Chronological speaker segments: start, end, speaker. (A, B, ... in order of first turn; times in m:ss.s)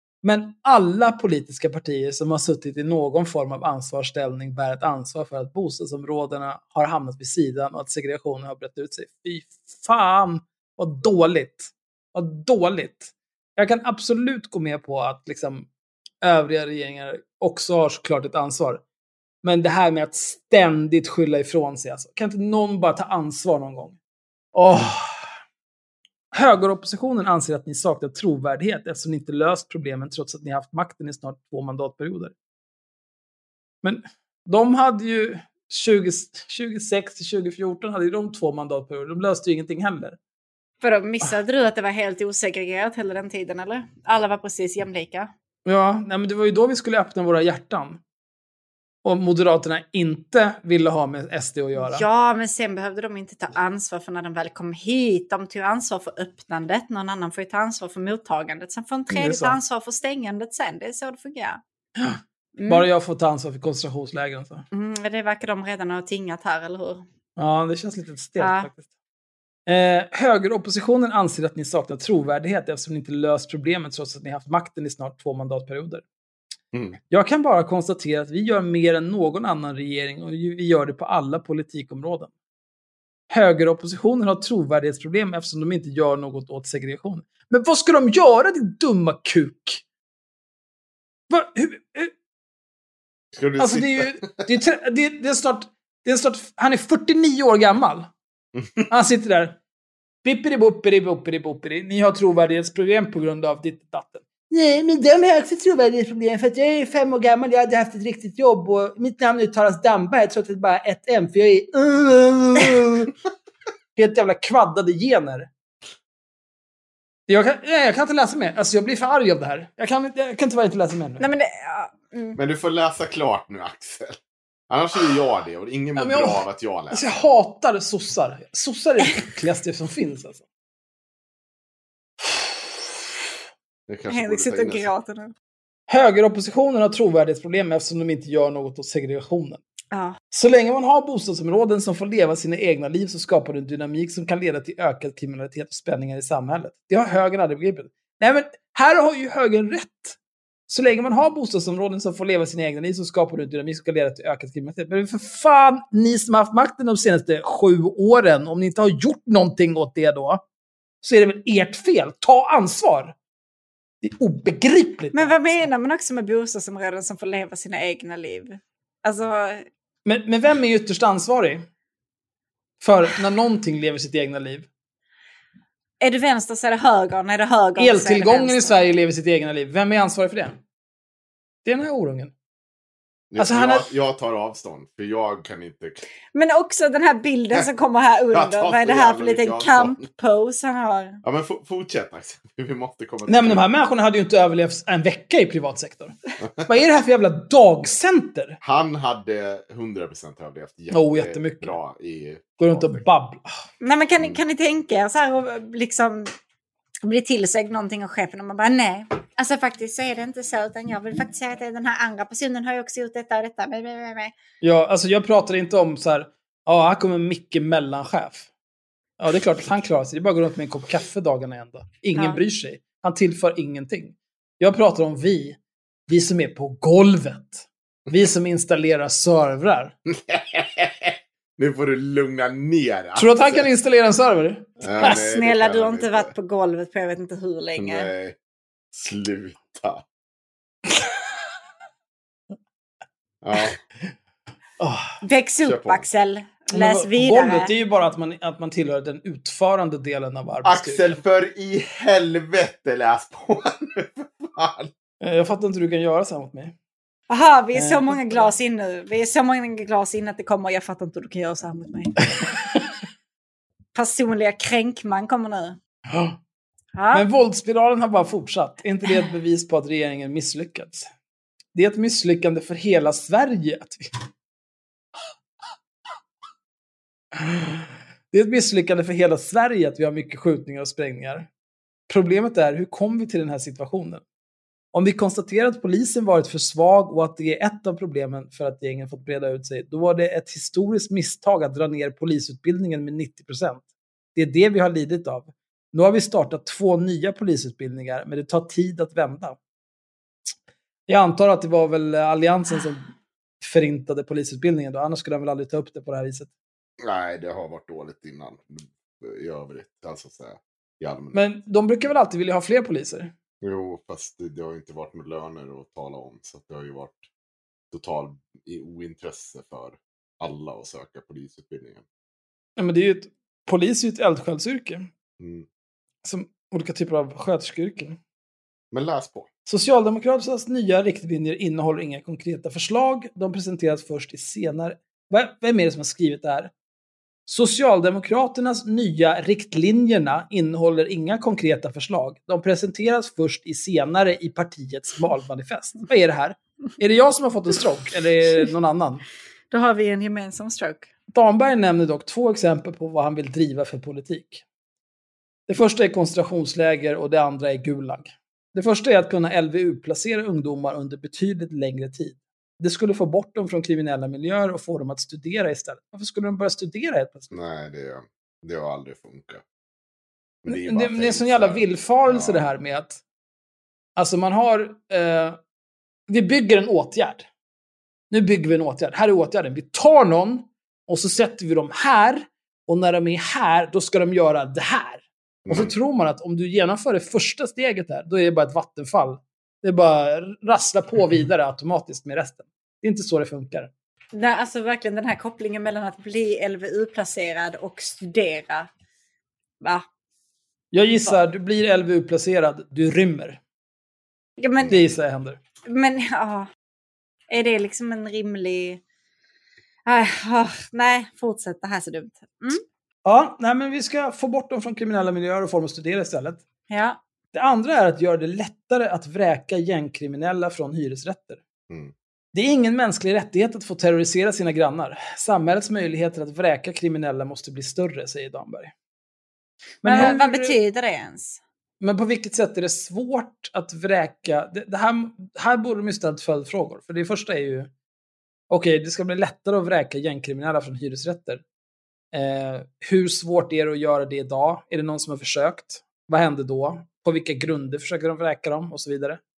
0:00.2-0:15.7 A
0:16.2-0:18.8 A
0:19.4-0:24.0 A
0:24.5-0:25.2 A
0:26.3-0:32.3 A
0:33.8-0:40.2 A
0:40.8-0:45.3 B
0:45.6-0:48.0 A
0:49.0-0:52.0 A
0:51.8-1:01.6 B
0:59.1-0:59.6 A
1:02.0-1:04.6 A
1:02.6-1:02.9 B
1:04.7-1:07.0 B
1:07.4-1:08.9 A
1:08.4-1:08.7 B
1:09.7-1:16.0 A
1:16.7-1:17.0 C
1:17.1-1:22.3 A
1:23.3-1:29.8 A
1:31.3-1:32.1 A
1:33.3-1:34.6 C
1:33.6-1:38.1 A
1:38.6-1:38.9 C
1:38.9-1:39.6 A
1:40.2-1:53.1 A
1:54.0-1:55.5 A
1:57.3-2:01.2 A
2:01.2-2:02.4 B
2:02.4-2:07.0 C
2:06.0-2:06.4 A
2:06.9-2:10.4 A
2:13.9-2:14.9 C
2:14.1-2:15.3 B
2:15.9-2:19.6 A
2:19.9-2:20.2 B
2:20.3-2:30.2 A
2:30.7-2:40.4 A
2:41.0-2:43.2 A
2:44.0-2:45.6 A
2:45.1-2:49.7 B
2:50.0-2:51.7 A
2:52.8-2:54.7 A
2:56.0-2:58.8 B
2:57.8-3:00.6 A
3:01.6-3:02.3 A
3:03.3-3:06.0 C
3:03.4-3:03.9 A
3:06.3-3:11.2 B
3:08.3-3:10.1 C
3:11.2-3:13.7 C
3:13.3-3:16.1 A
3:16.7-3:18.6 A
3:18.6-3:23.0 C
3:20.9-3:21.8 A
3:22.6-3:23.5 A
3:23.8-3:26.3 B
3:27.0-3:34.3 B
3:34.6-3:38.5 A
3:39.2-3:49.9 A
3:42.2-3:42.4 B
3:50.1-3:53.7 C
3:53.2-3:55.1 A
3:54.8-3:56.3 C
3:55.0-3:58.1 B
3:57.8-3:58.4 C
3:58.9-4:00.0 C
4:03.4-4:03.8 C
4:04.8-4:05.2 A
4:05.2-4:07.7 B
4:05.6-4:06.0 C
4:06.7-4:11.2 A
4:10.6-4:14.9 C
4:15.2-4:16.7 A
4:17.3-4:22.2 B
4:17.8-4:18.5 A
4:24.0-4:25.8 B
4:26.1-4:26.4 A
4:27.0-4:27.3 B
4:27.1-4:31.1 A
4:31.7-4:34.1 A
4:37.4-4:41.5 A
4:42.1-4:44.2 A
4:44.9-4:59.6 A
5:01.1-5:06.5 A
5:07.0-5:11.4 C
5:11.3-5:13.3 A
5:13.6-5:17.3 C
5:17.9-5:22.0 C
5:22.8-5:25.1 A
5:25.4-5:25.7 C
5:26.2-5:28.2 A
5:28.9-5:29.5 C
5:29.7-5:36.7 A
5:37.5-5:49.2 A
5:49.7-5:51.1 B
5:51.3-5:54.6 A
5:55.7-6:07.5 A
6:07.5-6:09.6 C
6:10.6-6:12.7 C
6:10.7-6:13.2 A
6:14.2-6:15.6 A
6:16.3-6:17.5 A
6:18.3-6:33.9 A
6:25.7-6:25.9 C
6:34.4-6:38.9 B
6:40.9-6:43.6 A
6:44.6-6:45.0 B
6:44.9-6:45.6 A
6:45.9-6:46.7 B
6:47.5-6:49.0 B
6:50.1-6:52.8 B
6:53.2-6:56.6 A
6:56.9-6:57.2 B
6:57.5-7:01.6 A
7:02.5-7:08.9 A
7:10.0-7:10.8 A
7:10.0-7:11.6 B
7:12.0-7:17.9 A
7:18.7-7:21.6 A
7:22.3-7:29.4 A